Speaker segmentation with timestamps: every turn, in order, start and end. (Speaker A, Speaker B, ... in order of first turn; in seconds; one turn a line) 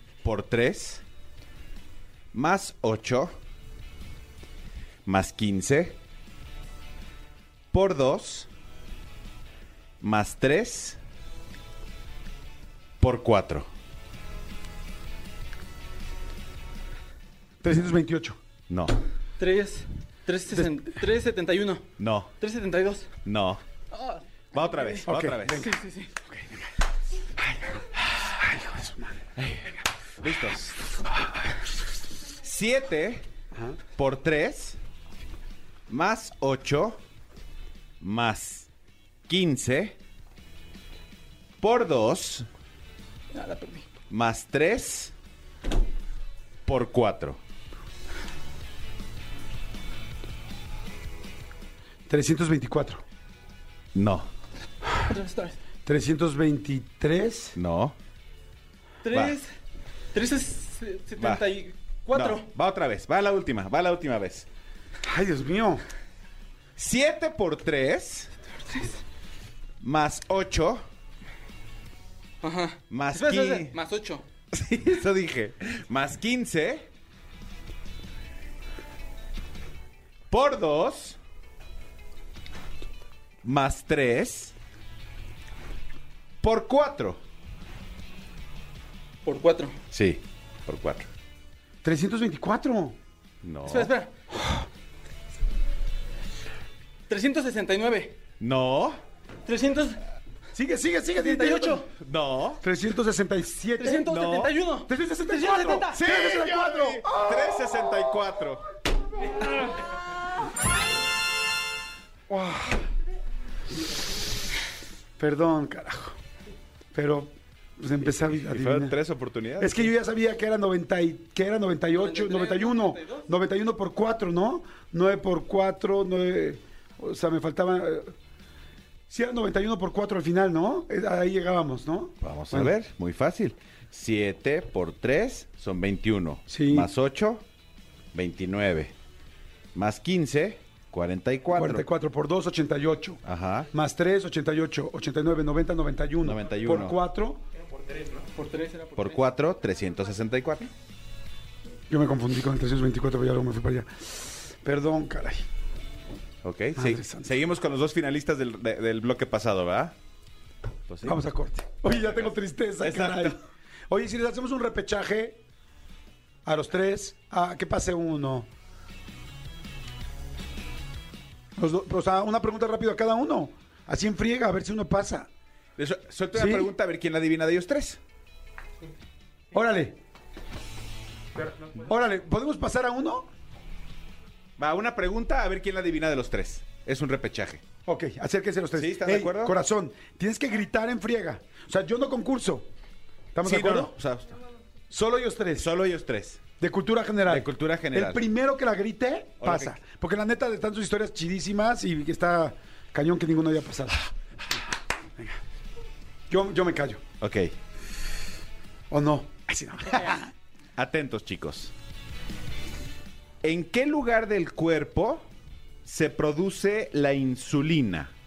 Speaker A: 0.2-1.0
Speaker A: 2.3-3.3
Speaker A: 5.0-6.0
Speaker A: 7.7-8.5
Speaker A: 10.0-11.0
Speaker A: 13.0-13.7
Speaker B: 17.6-18.4
Speaker A: 18.7-19.0
Speaker C: 19.4-21.9
Speaker A: 22.0-22.3
Speaker C: 22.4-23.1
Speaker A: 23.2-23.6
Speaker C: 23.9-26.1
Speaker A: 24.5-25.7
Speaker B: 25.0-26.7
Speaker B: 27.4-29.3
Speaker A: 29.4-30.8
Speaker B: 31.1-31.5
Speaker A: 32.4-33.2
Speaker B: 33.5-33.8
Speaker A: 34.0-34.8
Speaker A: 35.9-37.0
Speaker A: 38.0-38.7
Speaker A: 39.3-40.0
Speaker A: 41.6-42.5
Speaker C: 43.3-43.9
Speaker A: 44.1-45.1
Speaker A: 46.6-47.4
Speaker B: 52.1-53.0
Speaker A: 53.9-54.3
Speaker C: 55.0-55.6
Speaker B: 55.8-57.6
Speaker A: 57.5-57.9
Speaker C: 59.0-59.5
Speaker A: 59.1-59.4
Speaker C: 60.1-62.5
Speaker A: 61.2-61.4
Speaker A: 62.1-64.5
Speaker B: 65.0-65.8
Speaker A: 66.8-68.3
Speaker C: 68.6-69.0
Speaker A: 69.8-70.8
Speaker C: 72.4-74.2
Speaker A: 72.9-73.8
Speaker A: 74.5-76.9
Speaker A: 80.3-81.2
Speaker A: 83.4-84.5
Speaker A: 86.4-87.2
Speaker C: 89.2-89.8
Speaker A: 89.9-91.1
Speaker B: 91.8-93.0
Speaker A: 93.4-93.9
Speaker C: 93.7-94.1
Speaker B: 94.4-94.6
Speaker C: 97.1-98.2
Speaker A: 98.4-99.0
Speaker C: 99.5-100.0
Speaker B: 100.5-101.8
Speaker C: 101.2-101.9
Speaker A: 101.9-102.6
Speaker B: 102.6-104.1
Speaker C: 103.8-106.0
Speaker A: 104.1-104.5
Speaker B: 104.8-108.2
Speaker A: 105.9-108.6
Speaker B: 112.3-112.9
Speaker B: 115.2-116.2
Speaker B: 116.9-119.0
Speaker A: 118.1-119.9
Speaker B: 119.6-128.1
Speaker C: 121.9-123.3
Speaker B: 129.1-132.7
Speaker A: 132.2-137.4
Speaker B: 136.5-136.9
Speaker A: 138.1-138.9
Speaker A: 139.7-141.8
Speaker B: 141.5-143.2
Speaker A: 143.2-143.7
Speaker B: 143.7-147.4
Speaker A: 146.2-147.0
Speaker C: 148.3-149.3
Speaker A: 149.0-150.7
Speaker B: 151.9-155.4
Speaker A: 156.4-159.9
Speaker B: 156.7-157.3
Speaker A: 160.9-161.2
Speaker B: 161.0-165.4
Speaker A: 161.8-163.3
Speaker B: 166.4-168.5
Speaker B: 171.6-175.3
Speaker A: 175.8-178.0
Speaker B: 176.3-176.7
Speaker B: 179.5-180.0
Speaker B: 181.7-183.3
Speaker A: 184.6-187.6
Speaker B: 187.8-192.7
Speaker A: 188.8-189.5
Speaker B: 193.3-193.9
Speaker A: 193.4-194.4
Speaker B: 194.9-195.7
Speaker A: 195.6-196.4
Speaker B: 196.6-204.1
Speaker A: 197.3-198.2
Speaker A: 199.4-199.8
Speaker B: 206.3-207.0
Speaker A: 207.2-207.5
Speaker B: 208.9-210.3
Speaker A: 210.8-211.7
Speaker A: 213.4-215.3
Speaker A: 215.8-218.1